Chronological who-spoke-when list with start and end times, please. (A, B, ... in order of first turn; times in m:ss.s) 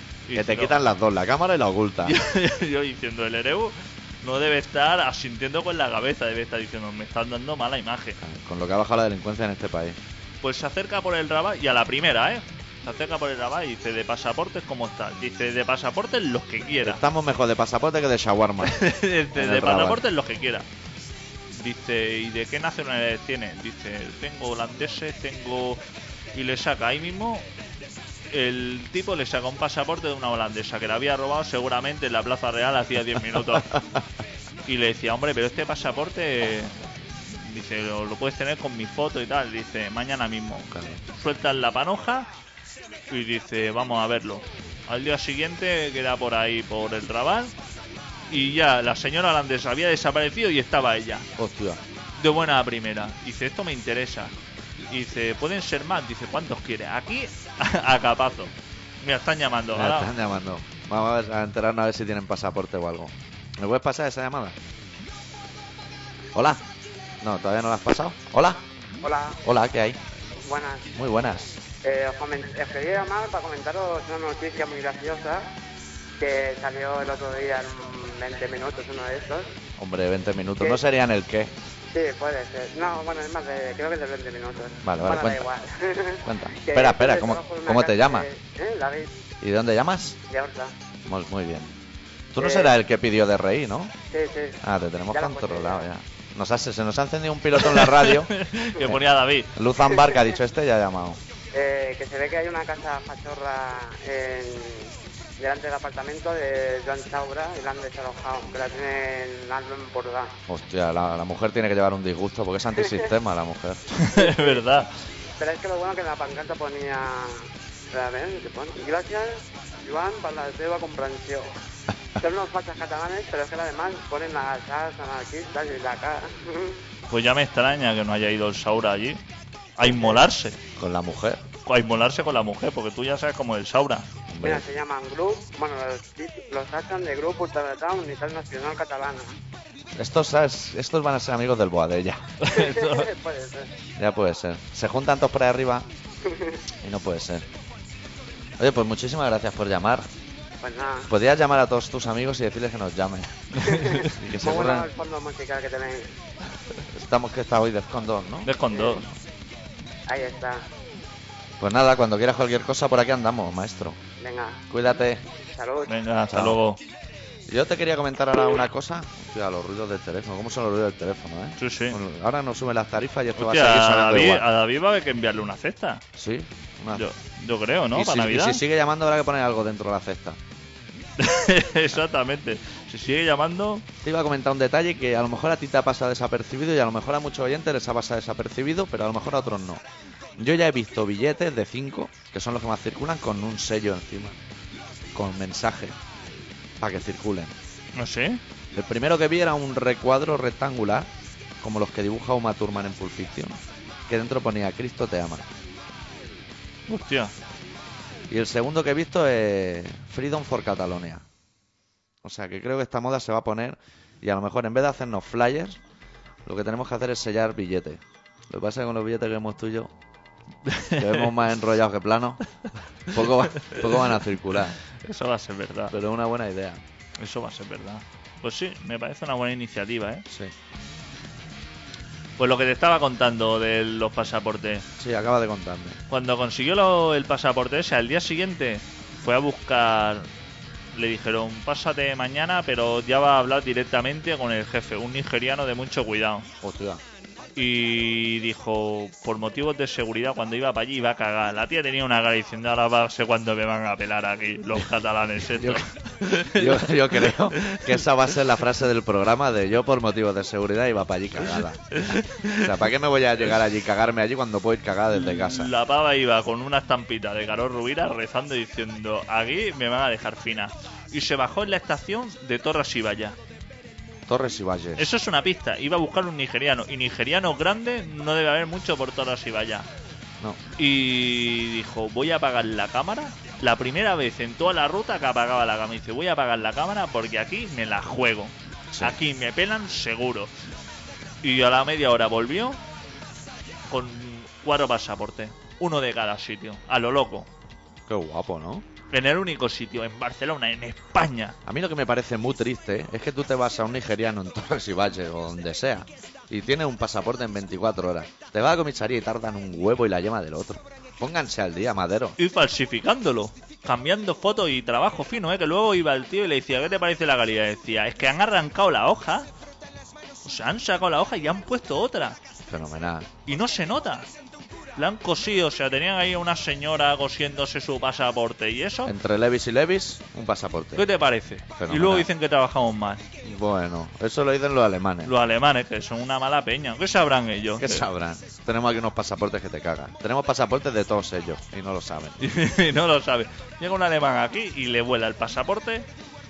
0:00.3-0:00.8 A
0:00.3-0:02.2 B
0:02.0-0:08.2 A
0:08.2-0:10.0 B
0:10.4-0:17.0 A
0:16.8-0:20.0 B
0:18.6-0:20.7 A
0:21.5-0:25.8 A
0:26.3-0:27.5 A
0:28.3-0:33.8 A
0:34.6-0:42.3 A
0:40.7-0:41.0 B
0:43.1-0:47.5 A
0:48.3-0:51.3 A
0:51.4-0:51.8 B
0:52.2-0:54.3 A
0:54.9-1:00.1 A
0:59.7-1:04.6 B
1:06.4-1:06.6 B
1:07.2-1:08.6 B
1:09.0-1:09.4 C
1:09.4-1:10.0 B
1:10.4-1:10.9 C
1:10.9-1:11.6 B
1:11.8-1:15.4 C
1:16.2-1:19.6 C
1:19.8-1:21.6 B
1:21.9-1:29.1 C
1:24.8-1:25.5 B
1:26.2-1:28.3 B
1:29.4-1:30.2 B
1:30.3-1:30.7 C
1:31.1-1:31.7 B
1:32.3-1:33.9 B
1:32.4-1:32.7 C
1:34.1-1:34.6 C
1:34.6-1:39.0 B
1:35.1-1:35.9 C
1:37.6-1:39.6 A
1:39.6-1:41.2 B
1:39.9-1:40.2 C
1:41.5-1:50.4 C
1:50.5-1:53.9 B
1:54.0-1:54.9 A
1:54.2-1:54.6 C
1:55.4-2:01.5 C
2:02.2-2:06.8 C
2:07.1-2:09.2 A
2:09.8-2:10.6 A
2:10.8-2:11.4 B
2:11.6-2:14.1 A
2:14.3-2:14.6 B
2:14.4-2:19.4 C
2:20.0-2:22.3 B
2:22.4-2:23.1 A
2:22.5-2:23.7 C
2:24.0-2:25.9 B
2:26.3-2:26.6 C
2:26.8-2:27.5 B
2:28.6-2:30.1 B
2:30.6-2:31.1 C
2:31.1-2:34.9 B
2:33.6-2:34.2 A
2:33.6-2:36.1 C
2:36.9-2:38.5 B
2:38.4-2:39.1 A
2:38.7-2:39.0 C
2:40.1-2:40.6 C
2:41.6-2:44.0 B
2:44.2-2:44.7 C
2:44.7-2:45.2 B
2:45.5-2:45.9 C
2:45.9-2:46.8 A
2:46.3-2:46.6 B
2:47.5-2:54.5 B
2:51.6-2:52.0 A
2:53.4-2:56.0 A
2:56.1-2:57.1 B
2:56.9-2:58.6 A
2:57.9-3:00.4 B
3:01.2-3:03.8 A
3:04.0-3:09.8 B
3:10.4-3:14.4 B
3:15.1-3:16.0 B
3:16.8-3:17.5 B
3:18.0-3:18.4 A
3:18.7-3:21.1 B
3:21.6-3:25.5 B
3:26.9-3:27.3 A
3:28.3-3:31.2 B
3:32.2-3:35.8 B
3:36.4-3:39.9 B
3:40.6-3:41.3 A
3:41.0-3:42.4 B
3:43.1-3:44.8 B
3:43.6-3:43.9 A
3:45.0-3:46.0 A
3:45.9-3:46.8 B
3:47.2-3:50.2 A
3:50.3-3:50.5 B
3:52.4-3:54.9 A
3:55.0-3:56.0 B
3:56.1-4:00.3 A
4:00.9-4:06.5 A
4:06.6-4:07.0 B
4:07.6-4:17.9 A
4:15.5-4:22.0 B
4:22.0-4:22.7 A
4:22.5-4:25.7 B
4:25.1-4:33.4 A
4:34.3-4:35.1 B
4:35.0-4:39.9 A
4:40.8-4:50.5 A
4:51.4-4:52.8 A
4:53.9-4:57.5 A
4:58.1-4:58.9 B
4:59.1-5:01.6 A
5:01.6-5:12.4 B
5:12.4-5:19.5 A
5:20.4-5:22.4 A
5:22.7-5:23.3 B
5:23.5-5:24.3 A
5:25.0-5:29.1 A
5:29.1-5:31.1 B
5:31.0-5:33.2 A
5:31.8-5:32.3 B
5:33.4-5:35.3 B
5:35.3-5:38.0 A
5:37.8-5:42.4 B
5:42.4-5:46.1 A